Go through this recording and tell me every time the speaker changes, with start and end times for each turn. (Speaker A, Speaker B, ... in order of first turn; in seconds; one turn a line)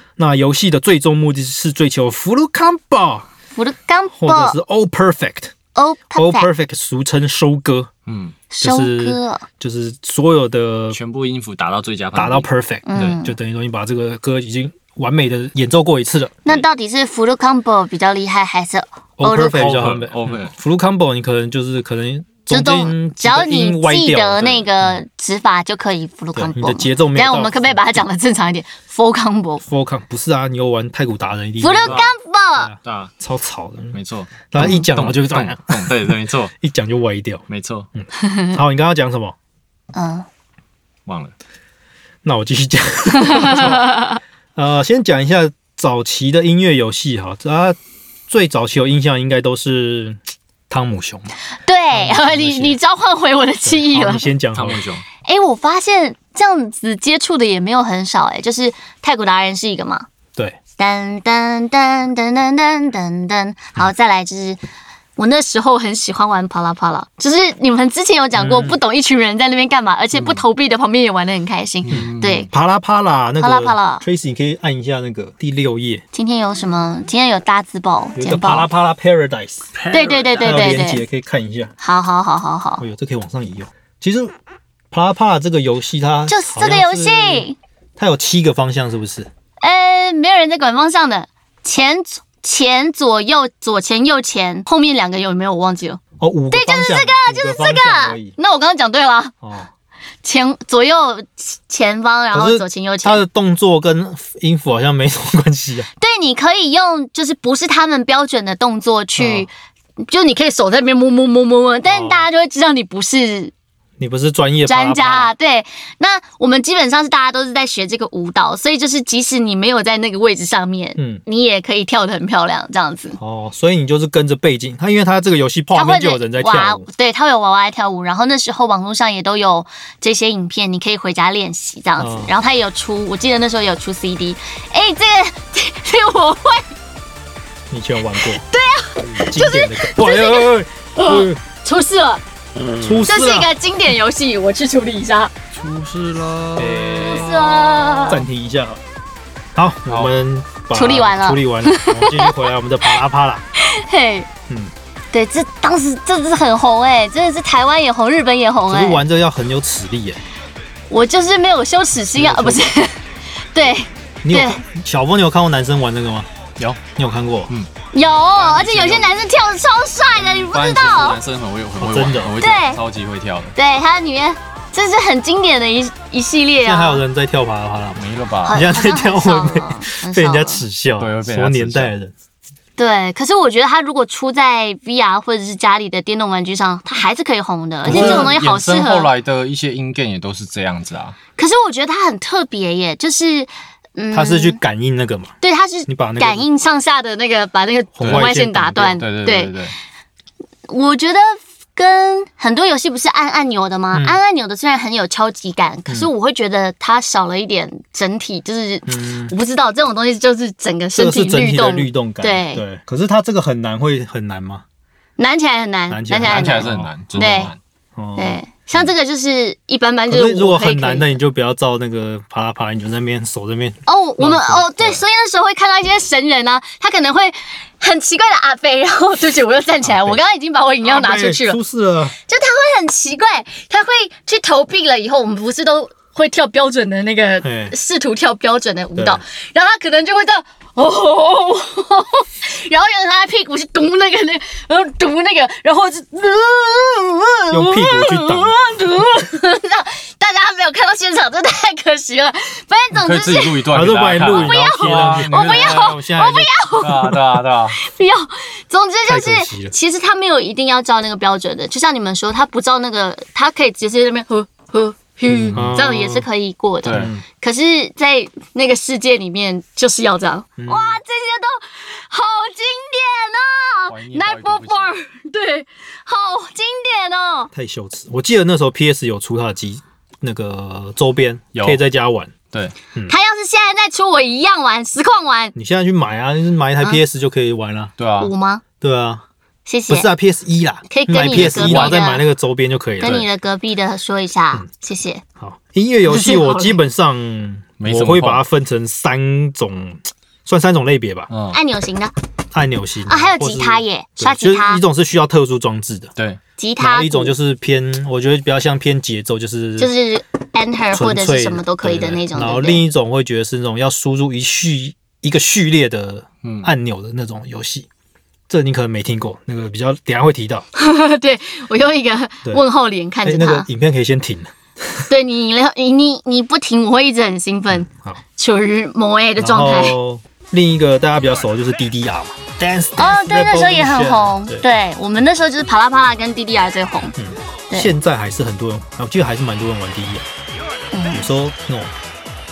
Speaker A: 0.2-3.3
Speaker B: 3.5-4.6
Speaker A: 4.2-5.5
Speaker B: 5.8-6.5
Speaker A: 6.2-7.9
Speaker C: 8.1-8.4
Speaker B: 8.5-9.4
Speaker A: 8.6-11.0
Speaker C: 10.9-12.5
Speaker A: 12.2-16.5
Speaker B: 12.9-13.3
Speaker B: 16.4-19.7
Speaker A: 19.2-24.7
Speaker C: 19.5-20.5
Speaker B: 22.5-29.6
Speaker A: 26.4-27.8
Speaker A: 29.6-32.0
Speaker B: 31.6-32.7
Speaker C: 31.8-32.1
Speaker A: 32.6-34.0
Speaker C: 32.8-33.1
Speaker C: 33.9-36.5
Speaker A: 34.5-37.4
Speaker B: 34.6-34.9
Speaker C: 37.5-37.9
Speaker A: 38.0-39.4
Speaker B: 38.1-38.6
Speaker B: 39.9-40.3
Speaker C: 41.1-41.3
Speaker A: 42.2-47.8
Speaker B: 43.2-44.2
Speaker A: 48.3-51.3
Speaker B: 51.6-54.3
Speaker A: 51.9-52.8
Speaker A: 53.6-54.8
Speaker C: 54.5-55.0
Speaker B: 55.2-60.1
Speaker B: 60.8-64.6
Speaker B: 65.2-72.5
Speaker A: 68.4-68.8
Speaker C: 70.2-70.4
Speaker A: 71.9-76.0
Speaker C: 71.9-72.5
Speaker B: 73.4-74.0
Speaker B: 76.1-78.7
Speaker A: 78.2-79.8
Speaker C: 79.8-80.6
Speaker B: 79.9-81.0
Speaker A: 80.4-81.7
Speaker B: 81.8-82.8
Speaker A: 82.8-84.4
Speaker A: 84.9-89.3
Speaker B: 86.3-87.6
Speaker B: 89.6-99.3
Speaker A: 96.2-98.3
Speaker A: 99.4-99.7
Speaker B: 100.2-103.2
Speaker A: 102.3-105.9
Speaker B: 106.0-113.5
Speaker A: 109.2-109.5
Speaker A: 111.9-112.3
Speaker A: 114.0-115.3
Speaker B: 114.7-123.2
Speaker A: 121.0-121.2
Speaker A: 123.2-126.9
Speaker B: 125.8-136.7
Speaker A: 132.0-132.3
Speaker A: 137.7-138.4
Speaker B: 138.2-142.2
Speaker A: 139.0-141.4
Speaker A: 142.8-143.5
Speaker B: 143.1-145.3
Speaker C: 145.5-148.1
Speaker A: 146.6-147.3
Speaker B: 147.0-148.2
Speaker A: 148.1-148.8
Speaker A: 149.6-153.4
Speaker B: 150.7-152.9
Speaker B: 153.6-154.3
Speaker B: 155.1-159.0
Speaker A: 158.7-160.2
Speaker B: 160.9-164.6
Speaker A: 162.2-162.7
Speaker A: 164.2-166.3
Speaker A: 166.9-167.5
Speaker B: 167.9-171.2
Speaker C: 168.4-169.1
Speaker C: 170.2-173.6
Speaker A: 171.8-172.4
Speaker B: 172.4-172.8
Speaker B: 173.6-177.0
Speaker A: 176.6-182.1
Speaker C: 178.0-178.6
Speaker B: 178.4-180.6
Speaker C: 181.0-181.9
Speaker B: 182.8-189.1
Speaker C: 187.8-191.2
Speaker A: 187.8-188.3
Speaker B: 191.4-194.6
Speaker A: 194.1-195.3
Speaker B: 195.4-199.6
Speaker A: 195.9-196.4
Speaker A: 198.0-199.0
Speaker C: 198.0-198.3
Speaker C: 198.9-199.7
Speaker B: 200.7-212.6
Speaker A: 203.9-204.2
Speaker A: 208.9-209.3
Speaker A: 210.9-214.6
Speaker B: 215.2-217.5
Speaker A: 215.9-216.9
Speaker C: 216.2-217.6
Speaker A: 218.0-218.4
Speaker B: 218.2-221.1
Speaker A: 220.1-225.0
Speaker B: 223.9-231.6
Speaker A: 229.8-230.2
Speaker A: 230.8-232.2
Speaker B: 232.2-253.6
Speaker A: 237.4-237.7
Speaker A: 239.0-239.2
Speaker A: 247.5-248.6
Speaker C: 252.9-256.0
Speaker A: 253.7-256.5
Speaker B: 254.3-257.2
Speaker C: 256.8-257.8
Speaker B: 257.7-277.5
Speaker A: 259.1-259.7
Speaker C: 265.4-265.7
Speaker A: 265.5-266.2
Speaker C: 266.8-267.1
Speaker A: 266.9-267.2
Speaker A: 270.6-271.0
Speaker C: 273.9-274.9
Speaker A: 277.5-282.3
Speaker C: 281.6-281.8
Speaker B: 283.1-285.6
Speaker A: 285.6-287.9
Speaker C: 288.0-288.3
Speaker B: 288.2-288.6
Speaker A: 288.8-289.2
Speaker B: 289.7-290.1
Speaker A: 289.9-293.2
Speaker B: 290.9-292.2
Speaker C: 291.3-292.1
Speaker B: 293.0-295.2
Speaker A: 295.4-301.3
Speaker B: 296.1-296.8
Speaker C: 297.8-298.4
Speaker C: 301.3-301.6
Speaker B: 301.5-302.1
Speaker A: 302.5-306.1
Speaker B: 303.1-304.8
Speaker B: 306.6-307.4
Speaker A: 306.8-309.9
Speaker B: 309.8-312.8
Speaker A: 310.9-317.9
Speaker C: 316.4-316.7
Speaker A: 318.5-320.7
Speaker B: 320.8-323.7
Speaker A: 323.2-325.1
Speaker B: 325.1-330.0
Speaker A: 327.8-328.2
Speaker A: 329.4-334.6
Speaker B: 333.0-337.2
Speaker A: 337.2-340.3
Speaker B: 340.9-341.2
Speaker A: 341.1-341.9